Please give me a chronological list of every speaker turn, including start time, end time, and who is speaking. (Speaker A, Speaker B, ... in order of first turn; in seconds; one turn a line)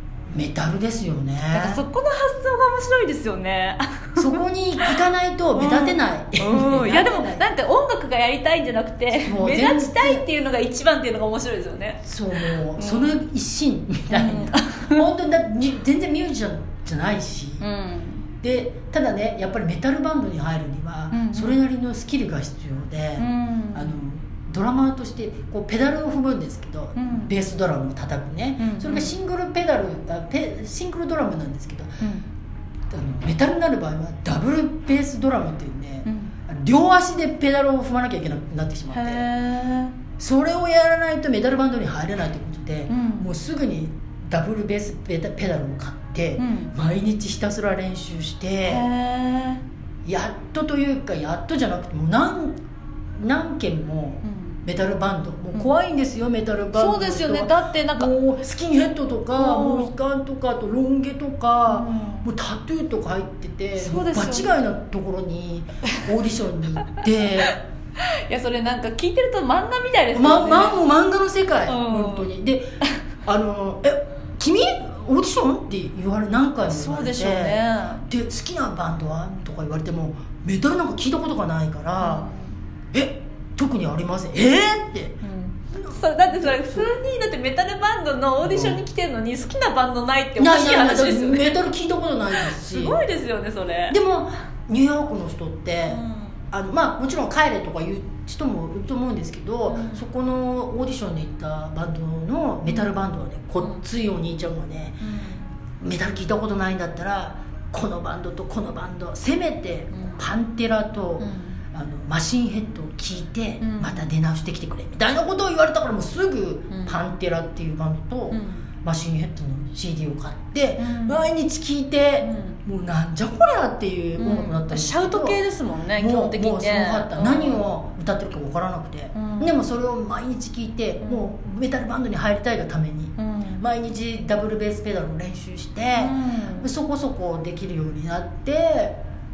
Speaker A: 0.3-1.8
Speaker B: 1.5-5.0
Speaker A: 4.2-7.5
Speaker B: 5.5-13.2
Speaker A: 9.2-10.2
Speaker A: 12.0-17.6
Speaker B: 14.1-15.0
Speaker B: 17.6-18.2
Speaker A: 18.4-32.0
Speaker B: 21.1-21.6
Speaker B: 23.2-24.0
Speaker B: 26.9-27.3
Speaker B: 28.6-29.1
Speaker A: 32.9-39.2
Speaker B: 36.0-36.3
Speaker B: 38.9-39.9
Speaker A: 40.2-48.9
Speaker B: 42.9-43.3
Speaker B: 46.4-46.7
Speaker B: 48.6-49.6
Speaker A: 50.0-52.6
Speaker A: 53.2-67.6
Speaker B: 54.2-54.6
Speaker B: 56.7-58.1
Speaker B: 59.4-59.9
Speaker B: 61.7-62.3
Speaker B: 63.7-64.5
Speaker B: 66.8-67.5
Speaker B: 68.3-70.8
Speaker A: 70.1-72.6
Speaker B: 71.7-72.3
Speaker A: 73.2-82.3
Speaker B: 76.6-78.1
Speaker B: 82.0-82.5
Speaker A: 82.9-85.2
Speaker B: 85.2-91.6
Speaker A: 85.7-86.9
Speaker A: 88.4-88.8
Speaker A: 90.4-93.0
Speaker B: 92.3-94.0
Speaker A: 93.9-105.0
Speaker B: 95.9-96.3
Speaker B: 99.7-100.0
Speaker B: 102.7-102.9
Speaker B: 105.0-105.5
Speaker A: 105.8-125.4
Speaker B: 111.2-111.6
Speaker B: 113.6-114.1
Speaker B: 116.7-117.0
Speaker B: 118.3-118.6
Speaker B: 120.8-121.2
Speaker B: 122.2-122.6
Speaker B: 124.2-127.6
Speaker A: 125.9-139.0
Speaker B: 129.1-129.6
Speaker B: 133.2-133.6
Speaker B: 136.0-136.7